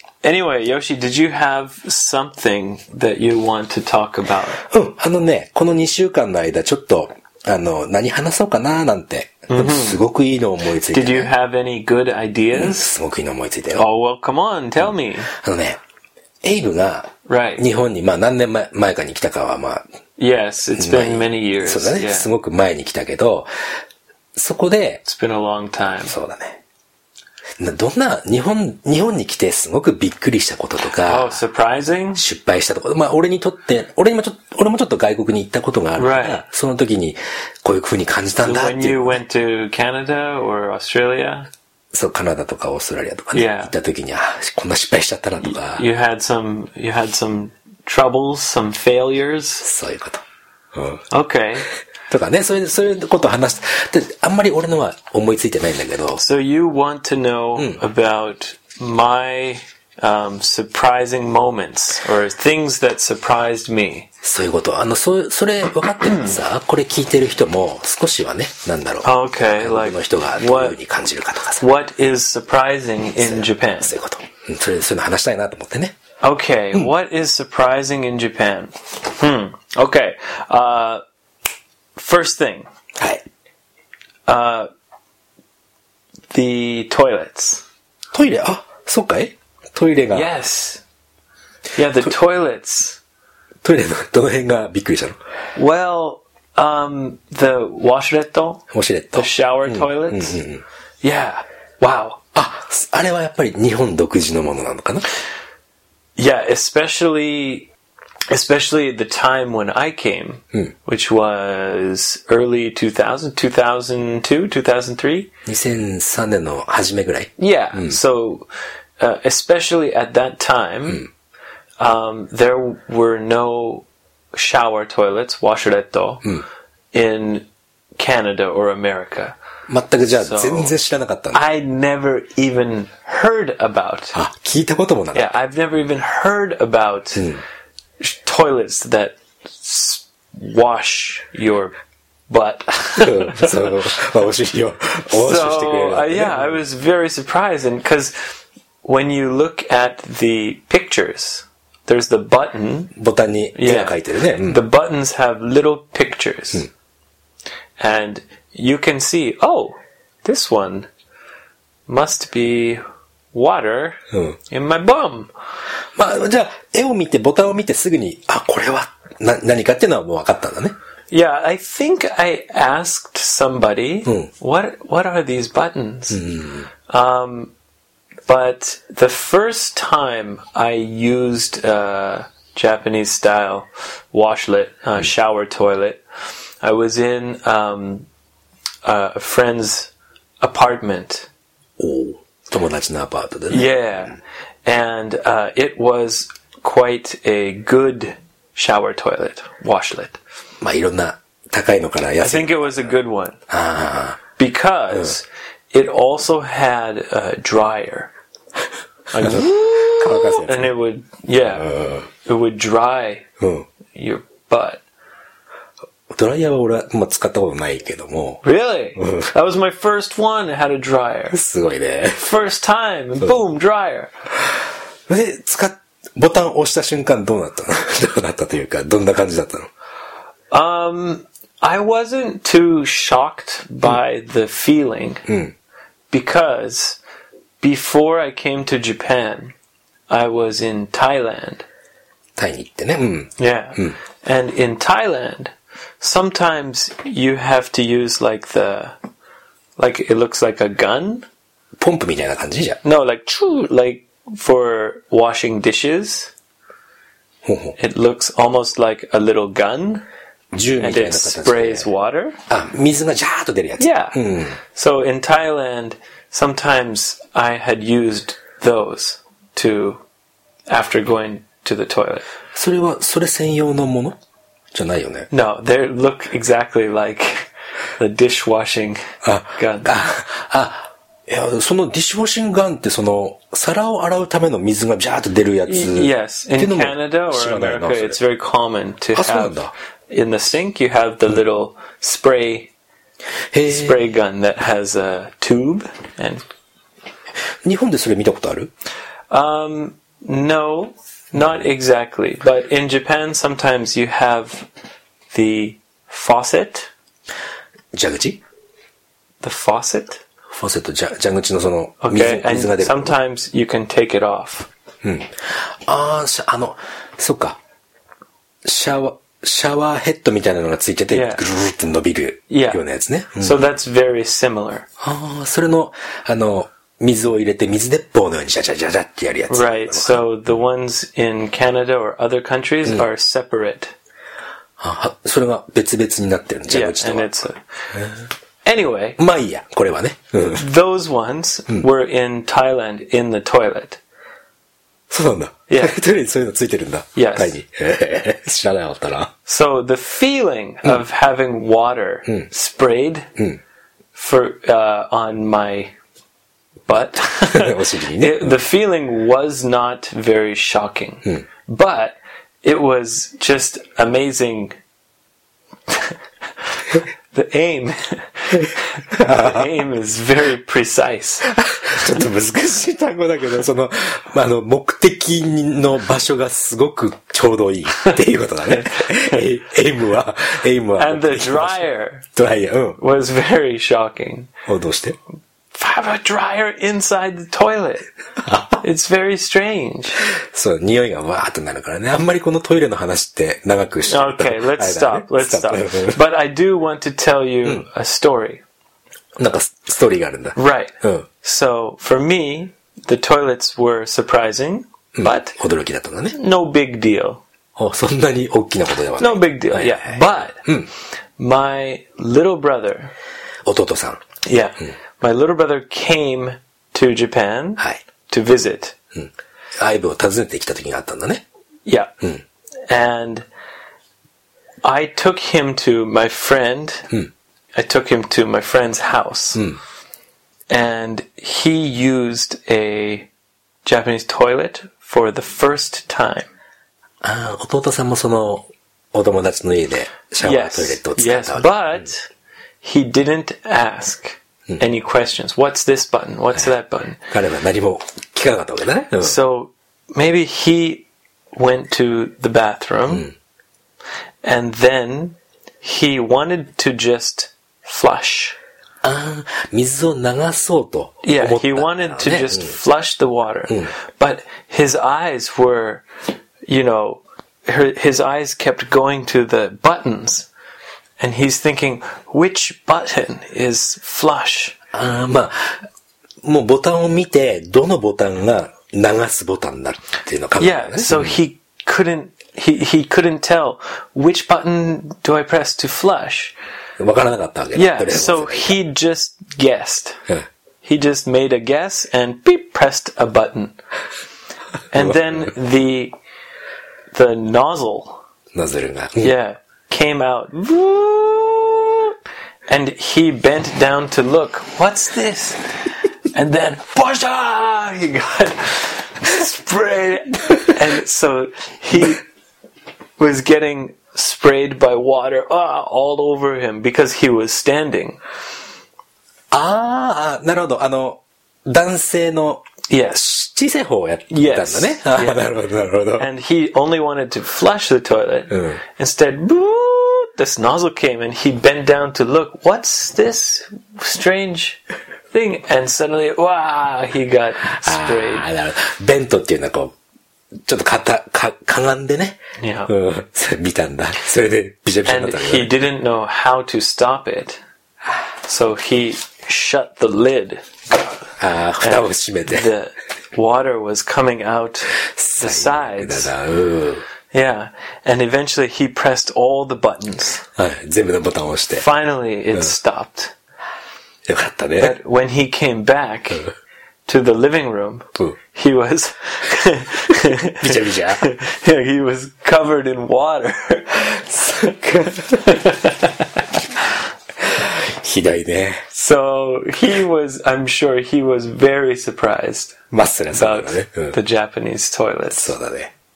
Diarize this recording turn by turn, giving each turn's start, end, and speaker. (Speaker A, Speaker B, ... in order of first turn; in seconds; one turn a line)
Speaker A: 0.2-4.6
Speaker B: 4.6-11.3
Speaker A: 9.5-10.0
Speaker A: 10.9-12.9
Speaker B: 12.5-13.9
Speaker A: 13.7-15.3
Speaker B: 14.8-15.8
Speaker B: 16.4-19.8
Speaker A: 17.3-17.6
Speaker A: 20.2-22.3
Speaker B: 20.7-23.5
Speaker B: 24.3-25.0
Speaker A: 25.0-26.1
Speaker B: 26.0-26.6
Speaker B: 27.6-31.4
Speaker A: 31.0-32.2
Speaker B: 32.1-39.2
Speaker A: 36.0-36.4
Speaker A: 38.4-41.5
Speaker B: 41.9-45.8
Speaker A: 43.3-43.7
Speaker A: 45.4-49.6
Speaker B: 49.6-50.2
Speaker B: 50.7-51.0
Speaker A: 51.1-51.7
Speaker B: 52.1-56.2
Speaker A: 56.2-64.1
Speaker B: 64.2-71.7
Speaker A: 66.0-66.4
Speaker A: 69.0-70.8
Speaker A: 71.6-73.9
Speaker B: 73.2-75.9
Speaker A: 76.2-81.0
Speaker A: 82.0-82.7
Speaker B: 83.0-83.2
Speaker A: 84.3-84.7
Speaker A: 86.3-87.6
Speaker B: 88.1-90.3
Speaker A: 90.1-90.8
Speaker A: 91.7-93.0
Speaker B: 93.6-95.2
Speaker A: 95.5-98.6
Speaker B: 98.7-100.6
Speaker A: 99.1-100.4
Speaker A: 101.0-102.2
Speaker B: 102.3-105.0
Speaker A: 106.2-107.7
Speaker A: 108.3-115.3
Speaker B: 115.5-118.0
Speaker A: 117.4-118.5
Speaker A: 119.0-121.1
Speaker A: 121.8-126.3
Speaker A: 126.9-129.4
Speaker B: 129.7-131.4
Speaker A: 130.1-130.7
Speaker A: 131.3-134.2
Speaker B: 134.1-135.3
Speaker A: 135.1-137.3
Speaker B: 137.1-137.4
Speaker A: 138.0-141.7
Speaker A: 142.3-143.7
Speaker B: 142.9-146.6
Speaker A: 145.1-148.1
Speaker A: 148.8-152.9
Speaker B: 153.0-154.6
Speaker A: 153.5-156.7
Speaker A: 157.8-160.9
Speaker A: 161.9-165.3
Speaker B: 164.1-164.4
Speaker B: 165.9-170.7
Speaker A: 171.1-176.3
Speaker B: 176.1-176.7
Speaker A: 176.9-177.5
Speaker A: 178.3-186.0
Speaker A: 186.6-188.1
Speaker A: 188.8-191.3
Speaker B: 191.8-193.7
Speaker A: 193.5-200.2
Speaker B: 200.6-202.8
Speaker A: 202.2-203.4
Speaker B: 203.5-204.2
Speaker A: 204.4-208.1
Speaker A: 209.1-213.3
Speaker B: 209.2-210.7
Speaker B: 211.6-212.1
Speaker B: 213.4-213.7
Speaker A: 213.9-214.8
Speaker B: 216.1-218.4
Speaker A: 218.4-221.4
Speaker B: 219.0-219.3
Speaker B: 221.3-222.2
Speaker A: 222.2-224.1
Speaker B: 225.1-229.7
Speaker A: 230.5-235.2
Speaker B: 235.2-235.5
Speaker A: 236.1-237.0
Speaker A: 237.6-239.5
Speaker A: 240.1-241.6
Speaker B: 242.4-243.9
Speaker A: 243.4-248.9
Speaker A: 249.8-251.3
Speaker B: 251.8-252.8
Speaker A: 252.8-256.3
Speaker B: 257.4-257.8
Speaker A: 257.8-260.0
Speaker B: 260.5-261.9
Speaker A: 260.8-262.4
Speaker B: 262.5-264.6
Speaker A: 263.8-270.0
Speaker A: 270.7-272.2
Speaker B: 272.5-274.2
Speaker B: 274.7-275.3
Speaker A: 275.3-279.0
Speaker B: 279.2-288.2
Speaker A: 279.6-279.9
Speaker A: 285.7-292.7
Speaker B: 289.1-289.7
Speaker B: 293.5-294.0
Speaker A: 293.6-296.4
Speaker B: 297.6-298.7
Speaker A: 299.3-304.7
Speaker B: 301.4-301.6
Speaker A: 305.3-306.9
Speaker B: 307.9-308.4
Speaker A: 309.4-310.2
Speaker B: 310.5-313.1
Speaker A: 312.0-314.7
Speaker B: 315.0-317.6
Speaker B: 318.6-323.6
Speaker A: 321.1-321.4
Speaker A: 322.5-322.8
Speaker A: 323.4-324.9
Speaker B: 325.0-330.2
Speaker A: 329.5-333.9
Speaker B: 334.8-337.3
Speaker A: 336.7-337.6
Speaker A: 338.6-339.2
Speaker B: 339.2-340.6
Speaker A: 340.5-344.0
Speaker B: 345.1-349.3
Speaker A: 345.7-346.0
Speaker A: 347.1-347.6
Speaker A: 349.4-353.3
Speaker A: 354.1-355.9
Speaker A: 356.9-364.7
Speaker B: 357.1-358.6
Speaker A: 366.9-371.5
Speaker B: 369.1-369.7
Speaker B: 371.4-383.0
Speaker A: 380.9-382.2
Speaker A: 383.0-384.5
Speaker B: 384.6-385.2
Speaker A: 385.7-388.1
Speaker B: 388.4-388.8
Speaker A: 388.8-390.2
Speaker B: 390.2-396.2
Speaker A: 394.1-398.6
Speaker B: 399.4-401.3
Speaker A: 400.6-405.6
Speaker B: 405.1-406.4
Speaker A: 406.3-407.4
Speaker B: 407.8-410.9
Speaker A: 409.2-410.6
Speaker A: 411.4-413.1
Speaker B: 413.6-414.2
Speaker A: 414.4-418.9
Speaker B: 419.1-421.4
Speaker A: 421.9-422.1
Speaker A: 422.9-423.4
Speaker A: 424.8-427.1
Speaker A: 427.7-429.6
Speaker A: 430.7-433.3
Speaker A: 433.8-436.5
Speaker B: 437.2-441.7
Speaker A: 440.4-442.3
Speaker A: 442.8-447.2
Speaker B: 447.3-449.4
Speaker A: 449.2-453.3
Speaker A: 454.4-458.6
Speaker B: 459.0-462.8
Speaker A: 461.2-466.1
Speaker A: 466.6-470.5
Speaker A: 471.2-474.8
Speaker B: 474.9-475.8
Speaker B: 476.4-481.4
Speaker A: 480.6-486.5
Speaker B: 487.0-488.8
Speaker A: 487.7-490.2
Speaker A: 490.8-493.8
Speaker A: 494.9-496.1
Speaker B: 494.9-495.5
Speaker A: 497.1-498.2
Speaker B: 498.5-499.3
Speaker A: 499.2-502.1
Speaker A: 502.7-505.7
Speaker A: 506.3-512.2
Speaker A: 513.2-518.2
Speaker B: 519.5-522.6
Speaker A: 522.9-523.3
Speaker B: 523.1-526.3
Speaker A: 524.3-525.4
Speaker A: 526.1-534.8
Speaker B: 528.5-528.8
Speaker A: 535.3-538.5
Speaker B: 537.7-539.9
Speaker B: 540.6-545.7
Speaker A: 542.6-542.9
Speaker A: 545.0-547.6
Speaker A: 548.4-551.0
Speaker B: 551.4-552.7
Speaker A: 551.8-556.3
Speaker B: 555.0-557.0
Speaker A: 557.3-560.4
Speaker B: 560.5-561.9
Speaker A: 561.7-563.3
Speaker B: 564.2-565.0
Speaker A: 564.8-566.5
Speaker A: 567.0-574.2
Speaker B: 570.6-571.2
Speaker B: 574.2-575.6
Speaker A: 575.3-576.4
Speaker B: 577.4-578.8
Speaker A: 578.9-582.8
Speaker B: 582.9-584.1
Speaker A: 583.3-585.5
Speaker B: 585.3-585.9